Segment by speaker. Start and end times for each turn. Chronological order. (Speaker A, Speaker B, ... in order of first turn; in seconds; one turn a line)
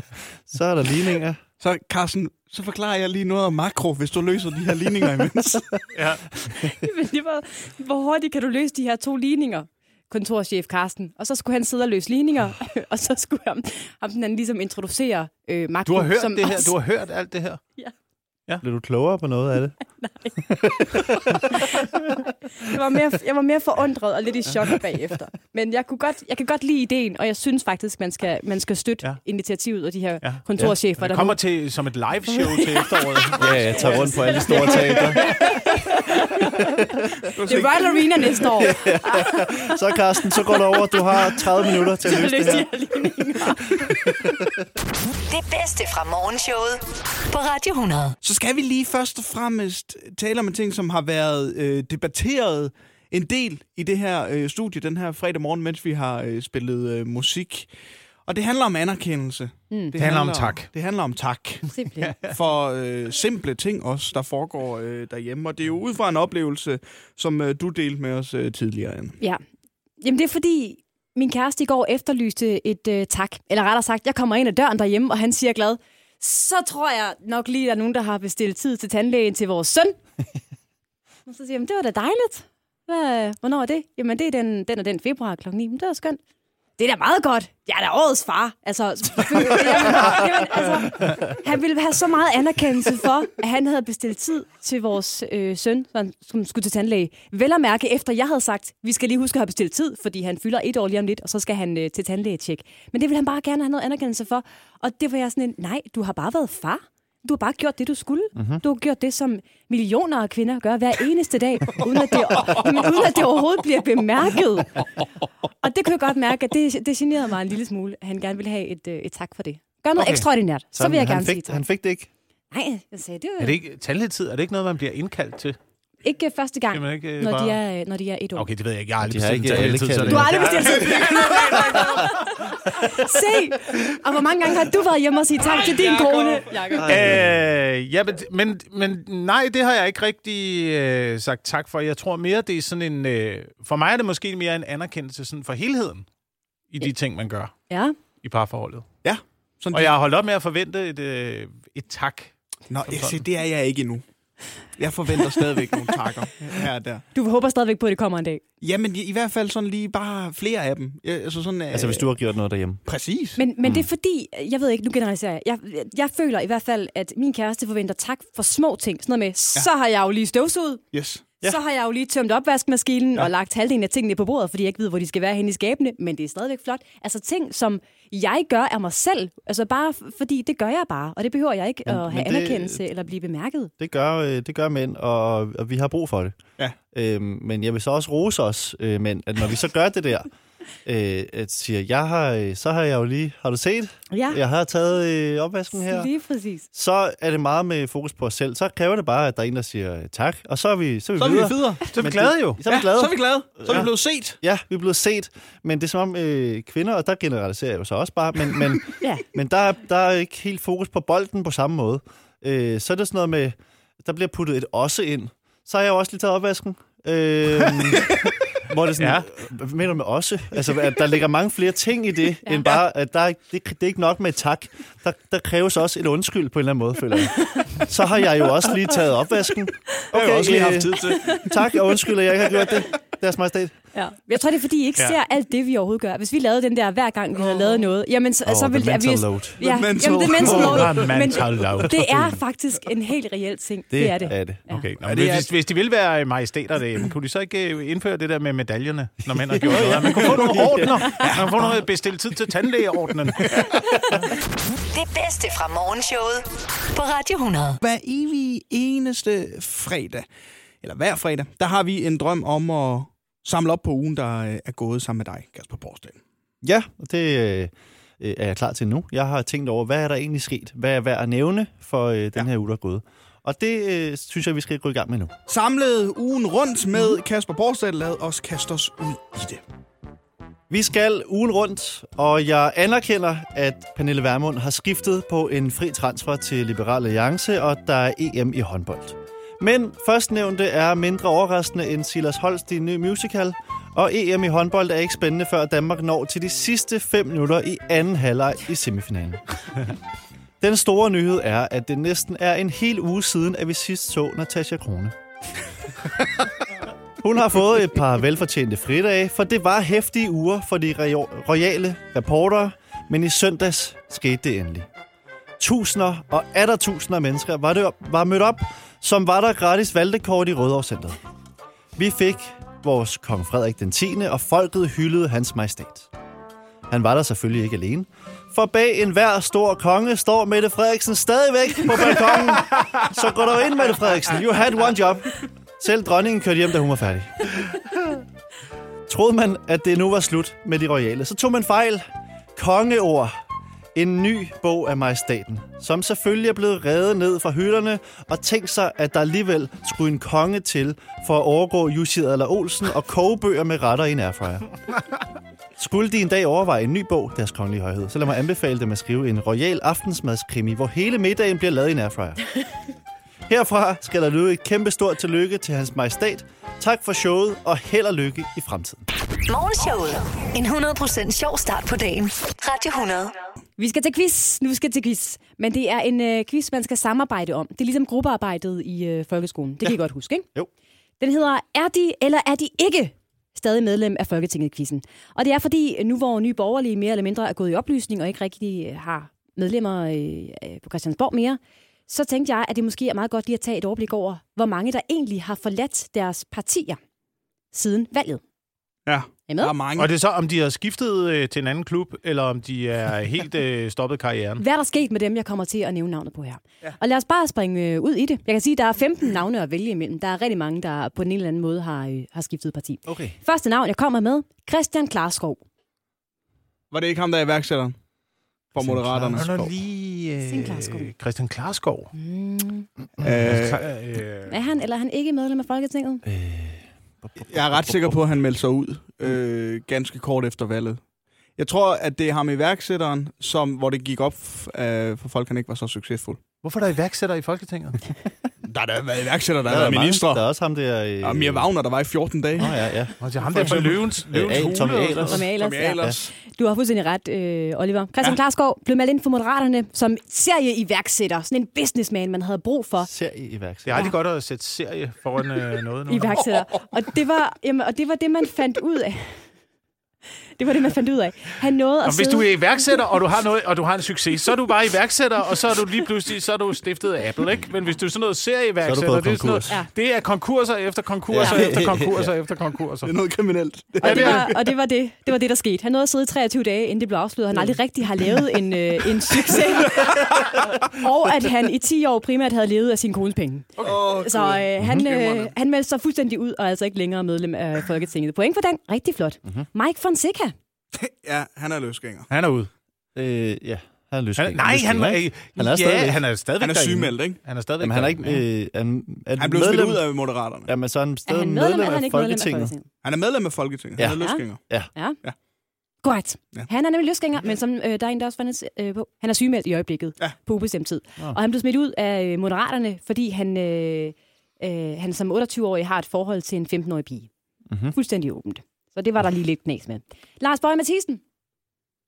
Speaker A: 0.5-1.4
Speaker B: 1.6-5.7
Speaker C: 5.9-6.2
Speaker D: 6.6-16.8
Speaker C: 15.9-17.6
Speaker A: 18.6-19.8
Speaker D: 20.0-20.4
Speaker A: 20.4-21.8
Speaker D: 20.9-21.9
Speaker D: 22.6-31.4
Speaker C: 31.0-34.5
Speaker D: 32.3-39.8
Speaker A: 33.3-35.5
Speaker A: 36.6-37.0
Speaker B: 37.3-38.3
Speaker A: 38.6-42.7
Speaker D: 40.4-44.4
Speaker A: 43.8-44.3
Speaker E: 45.1-48.2
Speaker B: 48.2-57.7
Speaker B: 58.3-69.2
Speaker D: 59.7-60.0
Speaker C: 60.0-60.7
Speaker D: 61.7-62.2
Speaker D: 70.0-80.0
Speaker D: 81.3-86.2
Speaker D: 86.8-114.9
Speaker A: 108.4-108.6
Speaker B: 112.4-112.7
Speaker D: 115.6-121.6
Speaker C: 120.0-120.3
Speaker A: 120.7-122.1
Speaker D: 122.5-123.6
Speaker C: 123.4-125.6
Speaker D: 126.0-128.5
Speaker C: 126.7-127.6
Speaker C: 128.4-132.4
Speaker A: 129.0-130.8
Speaker D: 130.1-137.2
Speaker B: 130.9-131.2
Speaker A: 136.7-137.4
Speaker C: 136.8-146.1
Speaker C: 146.7-147.6
Speaker D: 147.7-147.9
Speaker C: 148.2-148.9
Speaker B: 149.0-149.9
Speaker C: 149.7-152.3
Speaker B: 152.7-154.0
Speaker C: 152.9-153.2
Speaker B: 154.8-157.0
Speaker D: 157.1-158.4
Speaker B: 158.6-162.1
Speaker A: 161.7-162.8
Speaker B: 162.8-163.4
Speaker D: 163.4-170.8
Speaker B: 170.9-171.2
Speaker D: 171.4-183.7
Speaker A: 181.9-182.8
Speaker A: 183.8-186.4
Speaker A: 186.9-190.3
Speaker A: 190.8-196.1
Speaker D: 194.1-194.4
Speaker D: 195.7-196.7
Speaker A: 196.7-233.8
Speaker B: 201.2-201.9
Speaker C: 201.9-202.6
Speaker B: 202.7-204.4
Speaker C: 219.0-219.3
Speaker D: 222.4-222.8
Speaker D: 227.4-227.8
Speaker B: 230.1-231.4
Speaker D: 231.2-231.6
Speaker D: 233.9-244.9
Speaker B: 237.4-237.8
Speaker A: 238.5-239.6
Speaker B: 239.6-241.1
Speaker C: 240.4-242.3
Speaker A: 243.9-244.6
Speaker C: 244.7-253.8
Speaker B: 245.0-245.5
Speaker A: 249.4-251.3
Speaker B: 249.8-251.8
Speaker E: 254.9-257.8
Speaker B: 257.8-260.3
Speaker B: 260.8-266.2
Speaker A: 266.6-275.3
Speaker B: 275.5-279.6
Speaker A: 280.7-299.4
Speaker A: 300.6-305.2
Speaker A: 306.2-306.4
Speaker A: 307.2-314.9
Speaker A: 315.6-321.2
Speaker A: 322.0-326.1
Speaker A: 326.9-337.6
Speaker A: 339.1-343.4
Speaker A: 343.9-354.7
Speaker A: 355.8-362.5
Speaker A: 363.5-369.1
Speaker E: 369.5-373.4
Speaker D: 373.8-380.5
Speaker D: 381.2-397.0
Speaker D: 397.7-398.4
Speaker B: 399.1-400.1
Speaker D: 399.5-399.8
Speaker C: 400.0-404.6
Speaker D: 404.6-415.6
Speaker A: 413.1-413.4
Speaker B: 416.9-417.9
Speaker A: 418.7-419.7
Speaker B: 418.8-419.7
Speaker C: 419.3-422.1
Speaker D: 420.4-421.1
Speaker D: 422.1-422.9
Speaker B: 423.2-423.9
Speaker C: 423.3-424.6
Speaker D: 424.5-426.2
Speaker A: 426.2-428.2
Speaker B: 427.4-431.0
Speaker B: 431.6-436.4
Speaker C: 436.6-438.0
Speaker B: 438.6-440.4
Speaker A: 439.6-441.7
Speaker B: 441.2-446.3
Speaker A: 442.6-445.5
Speaker C: 443.2-445.4
Speaker D: 445.2-453.1
Speaker A: 453.0-454.1
Speaker C: 453.9-456.5
Speaker D: 456.1-459.4
Speaker D: 460.6-462.5
Speaker C: 462.1-473.1
Speaker A: 468.8-469.7
Speaker A: 471.3-472.3
Speaker D: 471.4-471.8
Speaker B: 473.1-474.6
Speaker C: 474.0-474.5
Speaker D: 474.0-490.5
Speaker B: 479.4-480.2
Speaker B: 483.8-485.5
Speaker A: 484.8-485.1
Speaker B: 490.9-492.3
Speaker C: 492.3-492.7
Speaker A: 493.1-496.2
Speaker C: 494.4-498.4
Speaker B: 496.6-497.4
Speaker A: 497.8-500.1
Speaker B: 499.4-500.7
Speaker A: 500.6-502.7
Speaker D: 501.3-502.9
Speaker B: 503.0-504.6
Speaker A: 504.0-504.9
Speaker D: 504.1-504.4
Speaker D: 506.0-517.3
Speaker A: 517.7-518.0
Speaker D: 517.9-521.2